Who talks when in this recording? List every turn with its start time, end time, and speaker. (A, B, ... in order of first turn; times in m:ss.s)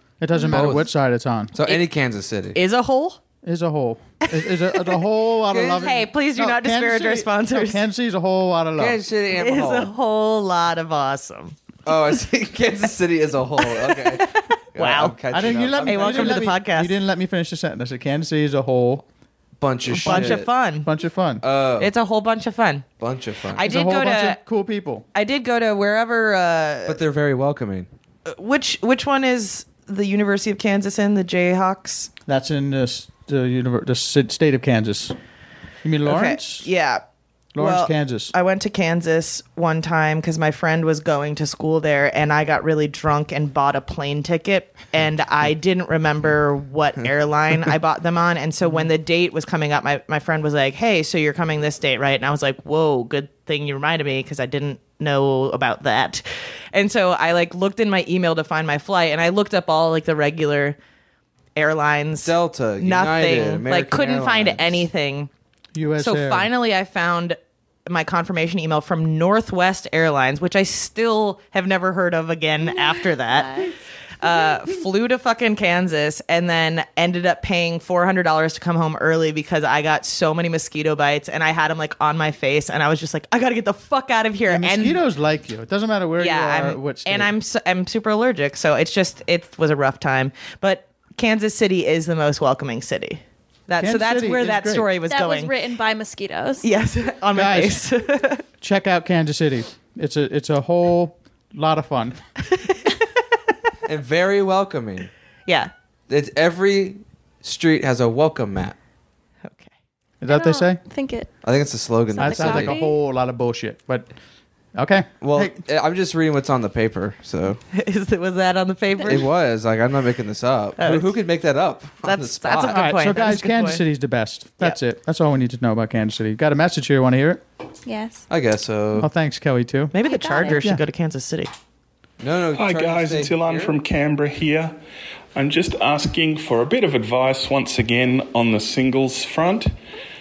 0:00.2-0:01.5 A
0:00.5-0:00.9 B
0:01.5-0:02.6 B
0:02.5-0:03.2 C
0:03.4-0:09.0 A
0:04.2-0:05.0 C
0:05.5-0:05.9 B
0:05.7-0:07.8 C
0:08.8-0:09.9 B
0:09.3-0:11.5 C
0:11.8-0:16.5 B
0:13.6-0:15.2 C
0:15.3-0:19.0 A
0:15.8-0:16.9 C
0:19.6-0:20.5 B
0:19.9-0:20.9 C
0:20.0-0:21.4 A
0:21.4-0:21.9 B
0:21.8-0:22.8 C
0:23.0-0:23.6 B
0:23.6-0:24.4 C
0:23.6-0:25.0 A
0:25.1-0:27.0 C
0:26.8-0:27.9 B
0:28.2-0:32.1 C
0:32.3-0:35.2 A
0:35.8-0:36.7 A
0:36.0-0:37.0 C
0:37.5-0:38.3 A
0:37.6-1:00.8 C
1:01.6-1:05.3 C
1:02.2-1:04.8 B
1:05.7-1:06.5 A
1:06.0-1:13.7 C
1:13.4-1:13.7 D
1:14.2-1:25.0 C
1:24.5-1:27.3 A
1:26.2-1:35.5 C
1:33.8-1:34.9 A
1:35.1-1:36.7 D
1:36.6-1:38.4 C
1:37.3-1:37.8 A
1:38.6-1:42.2 A
1:43.8-1:45.1 B
1:46.1-1:48.8 B
1:49.4-1:49.7 C
1:50.2-1:50.8 A
1:50.3-1:51.3 D
1:51.4-1:52.7 B
1:52.1-1:52.9 D
1:52.2-1:54.1 A
1:54.8-1:55.6 A
1:55.2-1:57.6 B
1:57.7-1:59.2 C
1:59.0-2:02.8 B
2:00.8-2:01.1 C
2:02.0-2:03.8 C
2:02.7-2:07.4 A
2:07.8-2:08.2 D
2:08.3-2:09.1 B
2:09.0-2:09.9 A
2:09.9-2:11.5 C
2:10.0-2:10.6 D
2:10.5-2:10.8 A
2:12.2-2:13.7 B
2:12.5-2:14.8 E
2:15.3-2:19.7 E